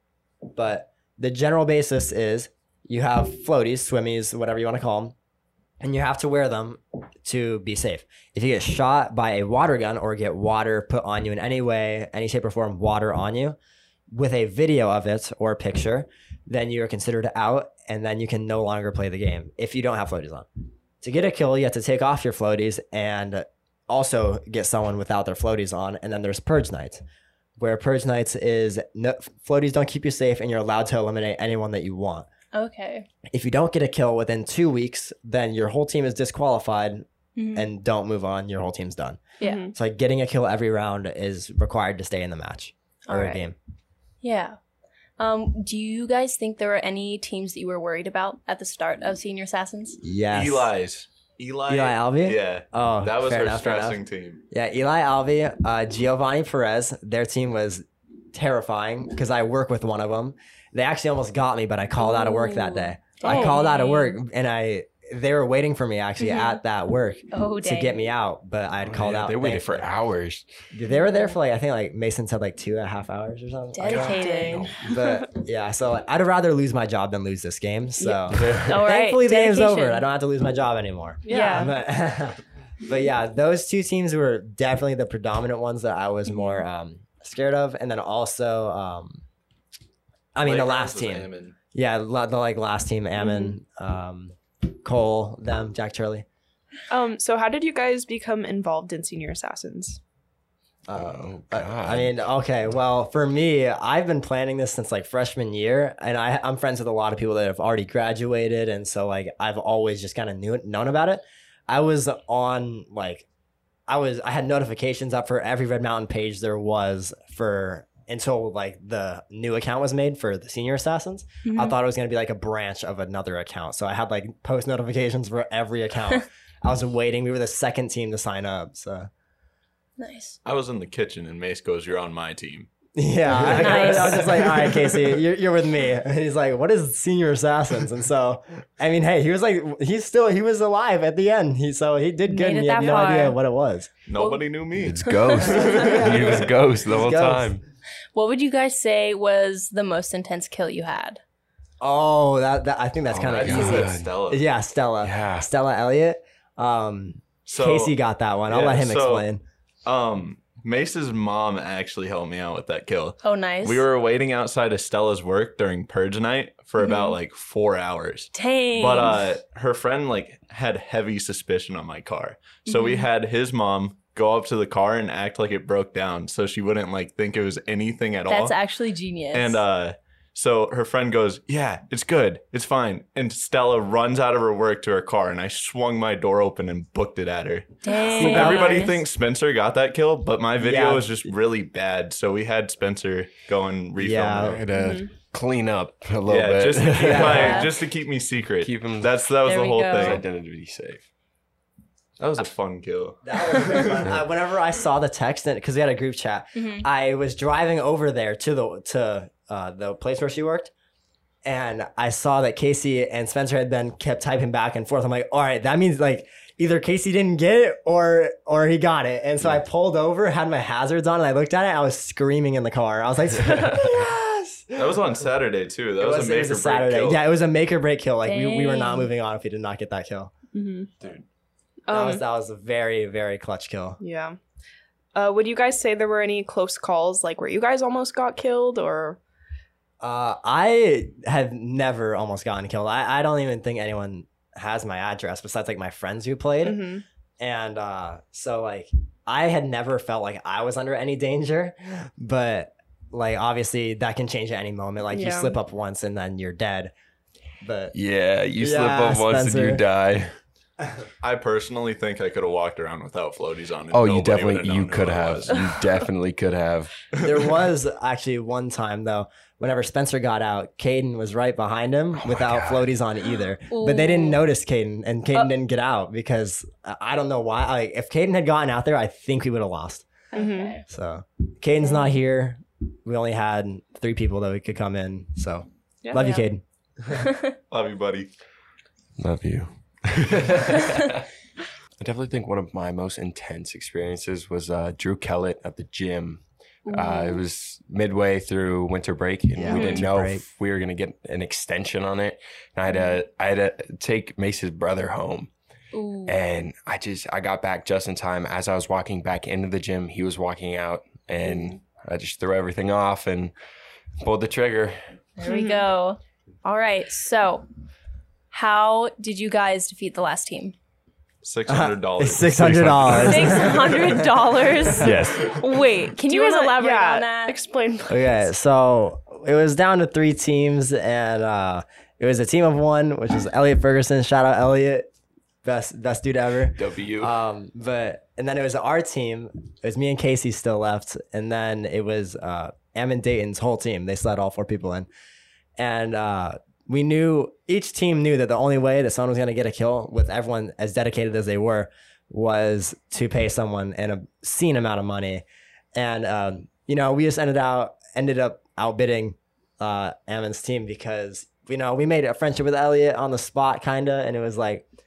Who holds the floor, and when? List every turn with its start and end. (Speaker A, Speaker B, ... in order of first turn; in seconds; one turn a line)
Speaker A: 0.5-5.2
Speaker A: 5.8-13.6
Speaker A: 14.1-20.5
Speaker A: 21.0-27.0
Speaker A: 27.6-32.3
Speaker B: 32.5-33.1
Speaker A: 33.3-39.2
Speaker B: 37.4-37.7
Speaker C: 39.5-39.7
Speaker A: 39.8-43.6
Speaker B: 43.1-43.4
Speaker B: 44.2-44.6
Speaker B: 45.2-50.0
Speaker A: 50.0-50.7
Speaker D: 50.3-54.4
Speaker A: 51.7-69.9
Speaker B: 62.0-64.2
Speaker B: 66.2-66.6
Speaker B: 67.3-68.1
Speaker E: 68.8-70.5
Speaker A: 70.7-89.2
Speaker B: 70.9-71.3
Speaker B: 73.7-74.7
Speaker E: 73.9-74.8
Speaker B: 78.0-80.1
Speaker E: 78.4-78.8
Speaker C: 81.3-81.6
Speaker B: 81.3-81.7
Speaker B: 86.3-86.6
Speaker A: 90.3-96.3
Speaker D: 90.4-91.6
Speaker C: 96.9-100.0
Speaker A: 100.9-113.3
Speaker E: 100.9-102.1
Speaker A: 113.9-129.1
Speaker B: 121.5-121.8
Speaker B: 130.0-130.4
Speaker D: 130.4-132.7
Speaker A: 133.0-143.9
Speaker D: 133.4-135.0
Speaker B: 133.4-134.3
Speaker B: 142.3-143.4
Speaker D: 144.1-146.5
Speaker B: 144.2-146.1
Speaker E: 144.8-147.6
Speaker A: 145.7-147.6
Speaker B: 148.1-151.2
Speaker A: 151.8-159.4
Speaker E: 153.1-154.2
Speaker D: 153.3-154.4
Speaker E: 155.0-155.5
Speaker D: 157.5-157.9
Speaker D: 158.5-159.3
Speaker D: 159.9-178.6
Speaker B: 163.2-163.9
Speaker B: 166.8-167.2
Speaker B: 168.3-169.3
Speaker B: 172.7-173.1
Speaker B: 178.3-179.6
Speaker D: 179.3-194.6
Speaker B: 187.8-189.0
Speaker A: 188.1-188.8
Speaker A: 190.6-191.2
Speaker A: 194.0-194.6
Speaker E: 194.5-197.7
Speaker C: 194.8-195.1
Speaker D: 196.3-200.2
Speaker A: 196.9-197.6
Speaker B: 197.2-197.7
Speaker E: 198.6-199.2
Speaker B: 199.4-200.2
Speaker E: 200.0-201.1
Speaker D: 202.2-204.1
Speaker A: 203.2-210.7
Speaker B: 206.6-206.9
Speaker A: 211.4-225.0
Speaker D: 224.8-227.2
Speaker A: 226.0-230.3
Speaker B: 228.2-229.1
Speaker C: 230.5-230.9
Speaker C: 231.9-232.2
Speaker A: 231.9-234.0
Speaker C: 234.0-234.4
Speaker C: 235.2-239.2
Speaker A: 240.0-246.9
Speaker C: 246.7-247.0
Speaker A: 247.4-256.9
Speaker C: 255.1-255.5
Speaker A: 257.6-257.9
Speaker E: 257.9-260.4
Speaker A: 258.6-259.8
Speaker D: 261.2-265.8
Speaker E: 263.9-266.9
Speaker D: 267.2-267.5
Speaker A: 267.2-280.1
Speaker E: 272.1-272.9
Speaker B: 273.7-274.5
Speaker C: 280.4-280.7
Speaker B: 280.4-280.9
Speaker A: 280.9-286.6
Speaker B: 287.2-287.5
Speaker D: 287.7-288.3
Speaker E: 289.2-291.2
Speaker E: 292.0-305.5
Speaker B: 296.9-297.4
Speaker A: 299.6-300.4
Speaker B: 299.7-300.1
Speaker B: 302.9-303.2
Speaker B: 305.9-306.4
Speaker E: 306.3-313.5
Speaker C: 311.4-311.7
Speaker E: 314.2-315.0
Speaker B: 315.4-317.7
Speaker C: 315.4-315.8
Speaker B: 318.5-320.8
Speaker D: 321.4-325.4
Speaker A: 321.7-324.0
Speaker B: 323.2-327.6
Speaker E: 325.0-325.5
Speaker C: 326.3-328.4
Speaker A: 328.1-335.1
Speaker A: 335.6-345.1
Speaker E: 336.8-337.3
Speaker A: 345.8-364.9